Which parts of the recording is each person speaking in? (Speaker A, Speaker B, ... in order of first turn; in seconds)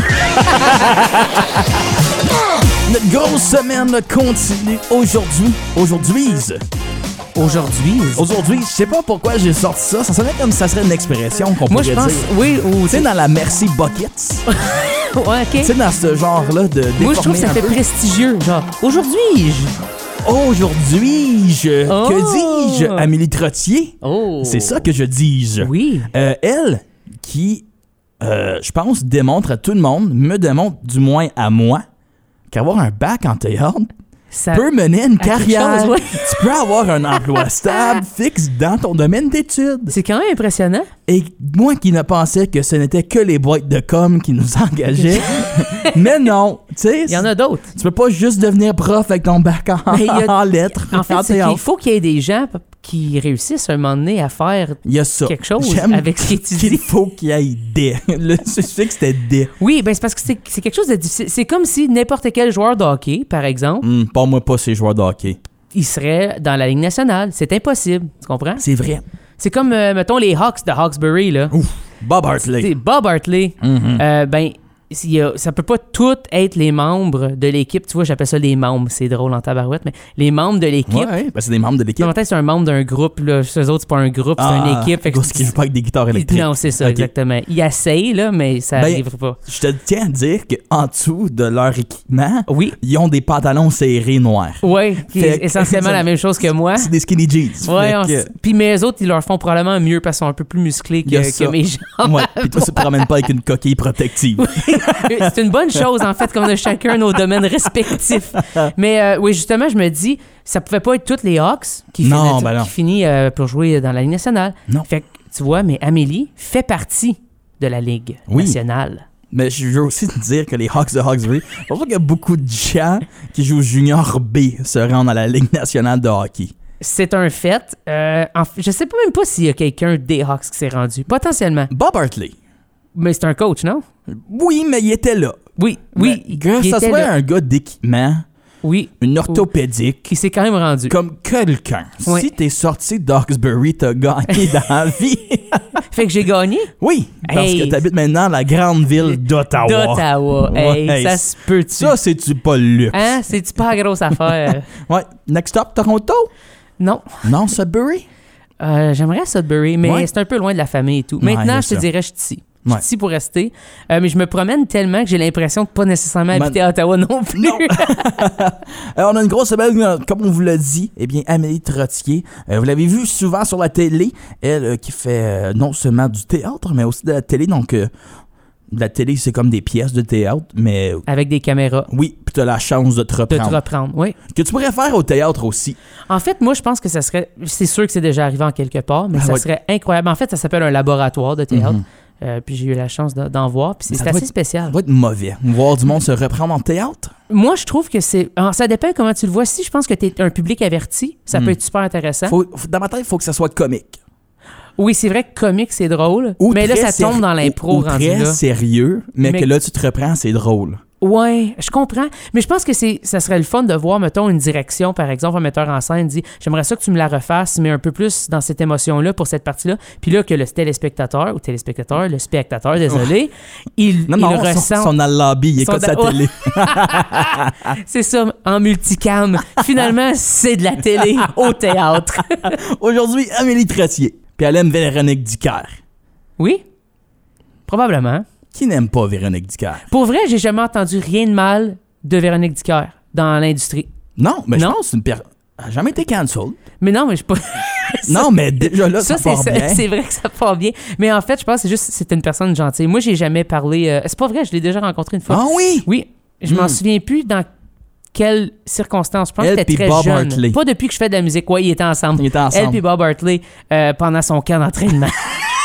Speaker A: 0.2-1.8, 2.5-6.6, 8.2-12.3, 12.9-14.5, 15.6-17.8, 20.2-27.6, 28.2-31.8, 32.5-33.9, 34.5-40.0, 41.1-51.6, 54.8-59.5, 63.8-65.4, 68.6-69.0, 71.5-72.7, 73.6-74.0, 80.9-82.1, 84.4-87.1, 88.8-98.3, 101.0-106.3, 108.1-108.7, 112.0-112.7, 118.3-118.6, 119.3-126.5, 131.7-132.3, 134.1-135.4, 135.9-138.3, 139.0-140.1, 140.9-145.8, 146.8-153.2, 154.2-156.3, 157.2-158.1, 159.8-160.1, 161.2-161.9, 166.3-166.6, 167.3-177.9, 178.7-181.0, 181.9-183.6, 184.3-185.8, 189.1-189.4, 191.5-191.8, 193.9-197.1, 202.3-204.0, 206.4-210.8, 224.1-227.8, 231.0-231.5, 232.2-235.8, 238.5-239.8, 244.2-246.6, 248.1-249.8, 255.3-255.9, 256.5-256.8, 259.4-260.6, 262.2-262.8
Speaker B: 7.4-8.3, 11.7-13.1, 14.5-15.7, 17.0-19.8, 21.9-23.1, 24.0-24.9, 25.6-26.1, 34.3-34.7, 35.2-36.4, 37.3-38.0, 39.9-40.9, 45.0-46.0, 47.1-47.7, 49.9-50.3, 50.9-56.8, 59.6-63.9, 65.7-68.7, 69.4-71.5, 72.6-81.1, 82.0-85.5, 86.1-89.4, 92.5-92.8, 94.6-96.9, 97.6-103.0, 104.4-119.0, 126.8-131.7, 132.9-133.8, 135.6-137.1, 138.6-139.5, 140.0-140.9, 145.9-147.8, 149.0-152.0, 152.9-154.7, 156.8-157.3, 158.6-168.1, 181.1-181.9, 183.3-184.2, 186.1-194.8, 197.3-202.3, 204.8-208.4, 209.2-209.5, 211.0-224.9, 225.6-232.6, 236.4-236.6, 237.7-238.2, 239.9-243.9, 246.8-257.5, 258.1-265.4